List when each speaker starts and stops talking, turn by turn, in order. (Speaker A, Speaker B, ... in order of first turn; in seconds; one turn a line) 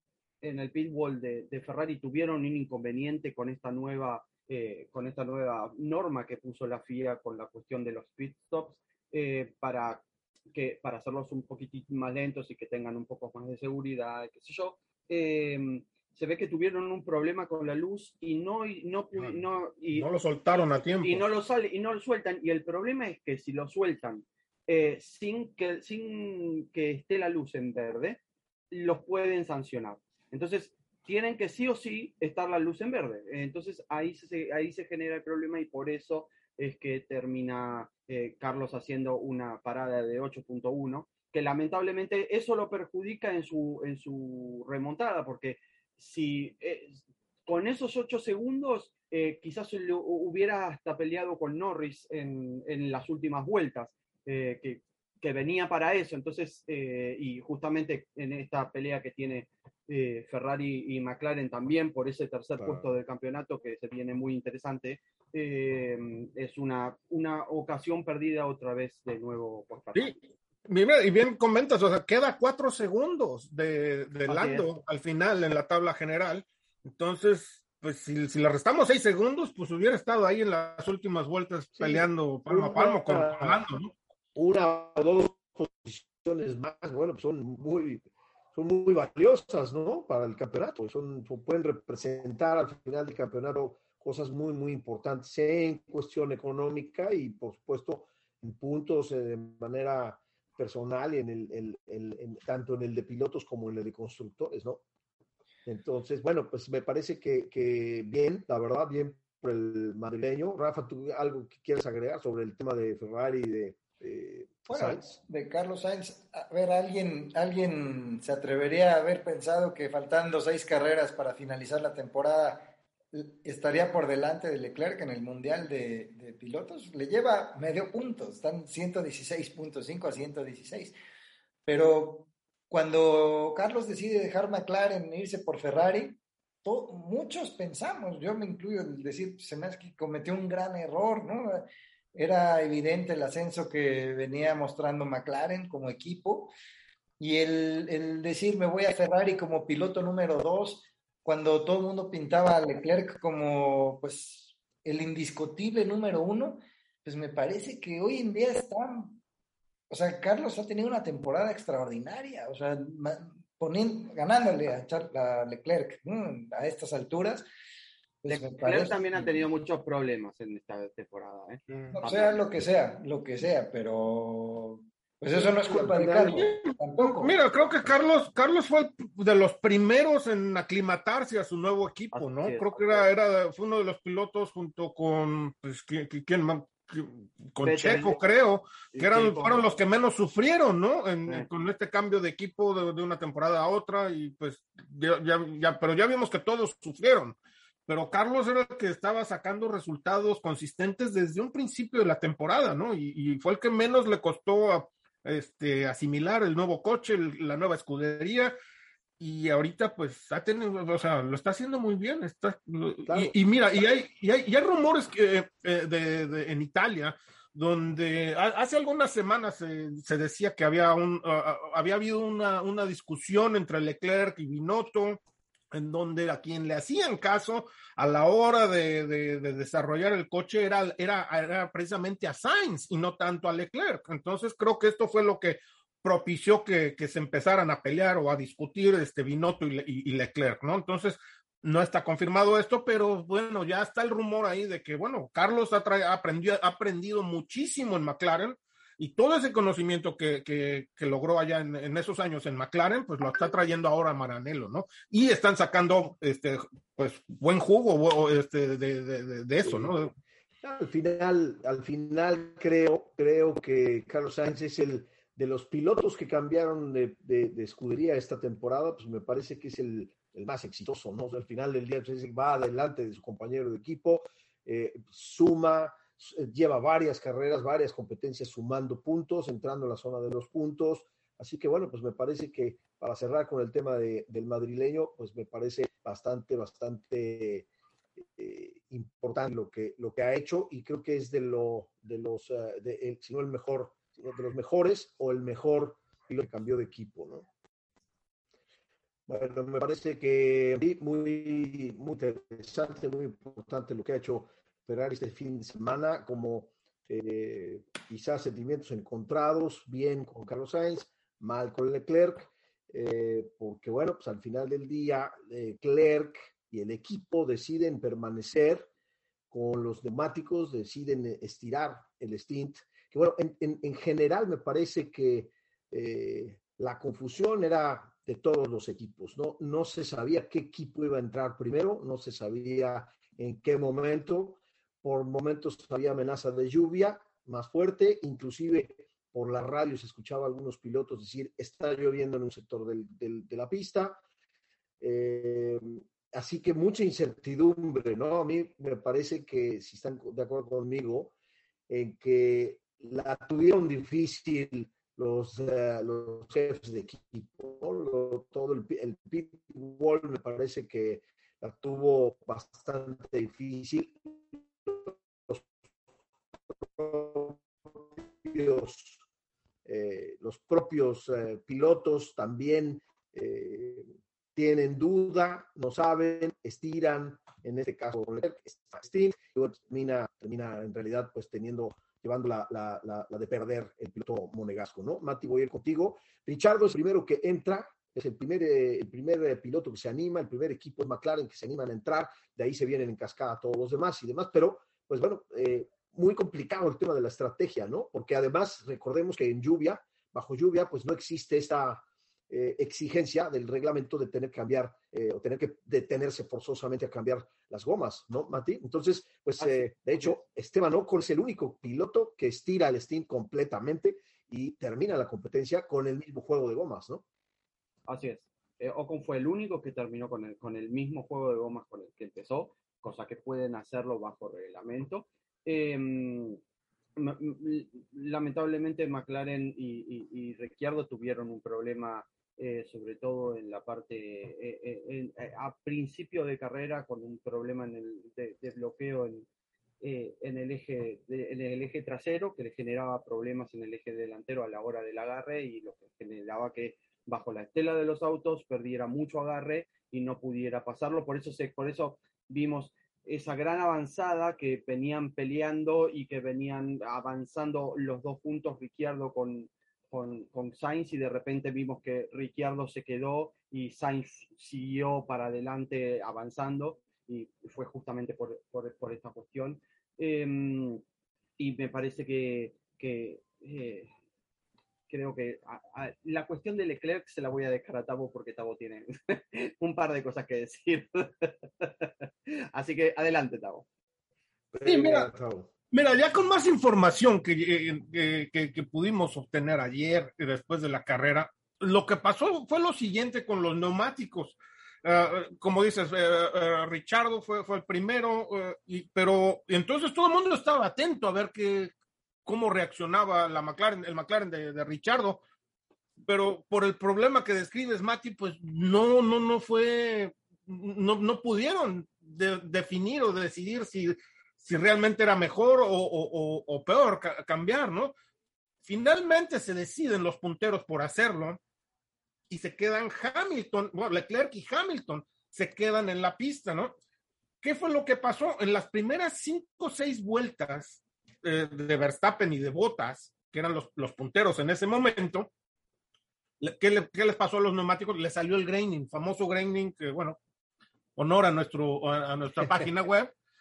Speaker A: 0.4-20.1
Speaker B: 19.9-21.3
Speaker A: 21.0-70.2
Speaker C: 62.6-63.0
Speaker B: 70.7-83.9
Speaker A: 74.3-74.7
Speaker C: 81.8-83.6
Speaker C: 84.3-104.8
Speaker C: 105.7-115.2
Speaker D: 114.7-130.9
Speaker D: 131.7-146.5
Speaker D: 147.2-159.2
Speaker D: 159.9-167.5
Speaker D: 168.2-169.4
Speaker A: 168.5-172.4
Speaker B: 171.7-172.0
Speaker D: 171.9-177.4
Speaker C: 175.3-176.5
Speaker B: 176.3-208.5
Speaker A: 182.1-183.1
Speaker A: 187.6-188.2
Speaker A: 188.9-189.6
Speaker B: 209.2-225.2
Speaker C: 213.1-213.3
Speaker B: 225.7-260.1
Speaker C: 259.6-260.0
Speaker C: 260.6-287.7
Speaker C: 288.4-297.5
Speaker C: 299.3-318.9
Speaker C: 319.5-344.2
Speaker C: 345.0-351.3
Speaker C: 351.9-365.7
Speaker C: 366.8-369.2
Speaker C: 369.9-417.2
Speaker A: 409.6-410.3
Speaker A: 418.1-426.6
Speaker A: 427.2-439.5
Speaker A: 440.0-471.0
Speaker A: 471.6-474.1
Speaker A: 475.1-483.9
Speaker C: 484.7-485.7
Speaker B: 484.9-485.3
Speaker B: 485.9-501.9
Speaker B: 502.5-505.4
Speaker B: 506.2-518.1
Speaker B: 518.9-521.6
Speaker B: 522.5-527.0
Speaker B: 527.6-535.5
Speaker B: 536.6-540.4
Speaker B: 541.2-543.3